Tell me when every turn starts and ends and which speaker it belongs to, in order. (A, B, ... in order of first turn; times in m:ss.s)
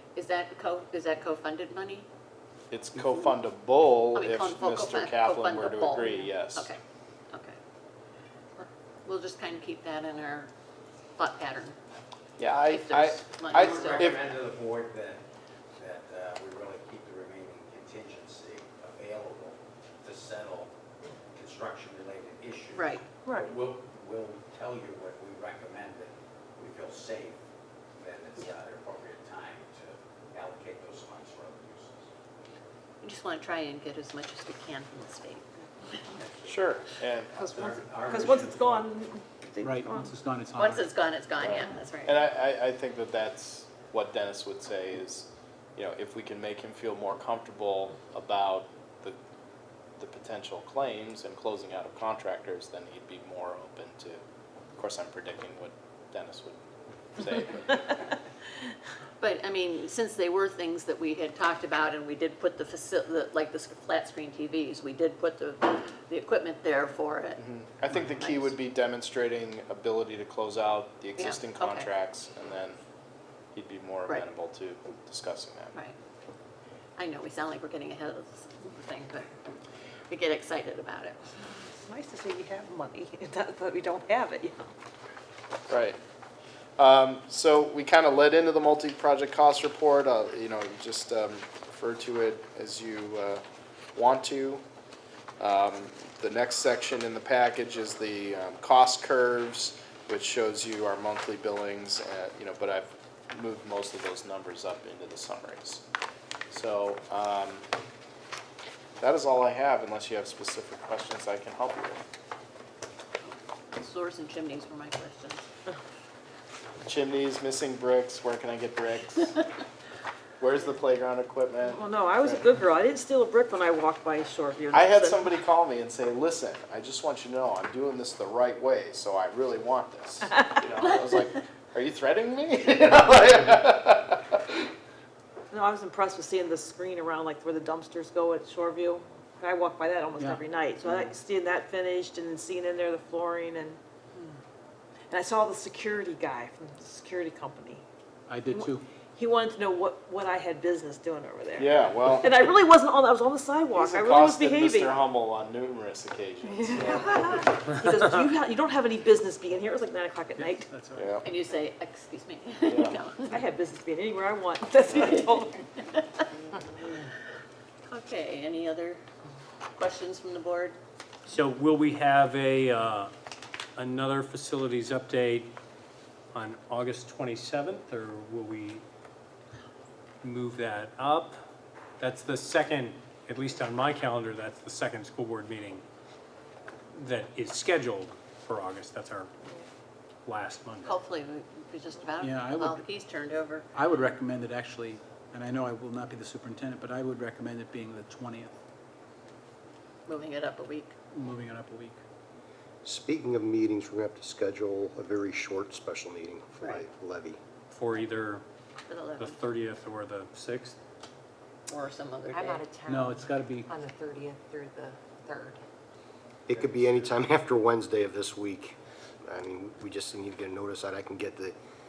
0:00.2-0:02.0 A
0:02.7-0:06.7 B
0:04.1-0:06.8 A
0:07.3-0:07.6 A
0:08.6-0:10.5 A
0:11.2-0:11.8 A
0:12.4-0:14.4 B
0:12.7-0:14.2 A
0:13.5-0:15.2 C
0:15.8-0:20.7 C
0:21.4-0:27.4 C
0:22.7-0:23.1 A
0:23.2-0:23.5 D
0:28.0-0:31.9 C
0:33.0-0:36.2 A
0:36.3-0:36.5 C
0:36.4-0:37.4 B
0:37.4-0:40.1 D
0:37.5-0:38.7 C
0:39.6-0:40.9 E
0:40.6-0:42.2 A
0:41.4-0:49.2 B
0:50.0-0:54.2 B
0:54.8-0:56.6 B
0:57.2-0:58.0 B
0:59.2-1:07.4 A
1:07.4-1:12.8 B
1:07.9-1:08.6 A
1:11.2-1:11.9 A
1:13.5-1:15.8 B
1:17.0-1:19.3 A
1:20.1-1:21.2 A
1:21.7-1:24.7 D
1:25.7-1:26.0 B
1:26.8-1:33.4 B
1:33.9-1:34.6 B
1:35.4-1:45.8 B
1:46.5-1:47.6 B
1:49.0-1:52.0 B
1:53.2-1:55.4 A
1:56.8-1:59.4 B
2:00.4-2:02.4 B
2:01.6-2:05.3 D
2:04.7-2:14.4 B
2:10.8-2:11.3 A
2:15.5-2:23.8 D
2:25.1-2:27.8 D
2:28.3-2:28.8 E
2:28.5-2:35.0 D
2:31.6-2:32.5 B
2:33.7-2:37.4 B
2:36.5-2:40.7 D
2:40.4-2:41.1 E
2:40.9-2:41.2 B
2:41.2-2:43.4 A
2:42.6-2:43.0 B
2:43.3-2:45.6 D
2:44.9-2:46.0 A
2:47.9-2:49.0 A
2:49.7-2:50.8 A
2:51.3-2:53.1 F
2:53.8-2:55.5 F
2:56.3-2:58.8 F
3:00.2-3:01.4 F
3:02.0-3:05.8 F
3:06.9-3:09.3 F
3:10.2-3:10.9 F
3:10.8-3:13.7 A
3:12.2-3:12.8 E
3:13.7-3:18.5 E
3:20.1-3:20.9 A
3:21.1-3:22.0 E
3:22.8-3:27.4 G
3:27.7-3:28.4 F
3:28.9-3:29.4 A
3:29.2-3:30.8 F
3:31.7-3:32.6 A
3:32.3-3:35.6 H
3:32.9-3:33.7 E
3:36.5-3:41.5 G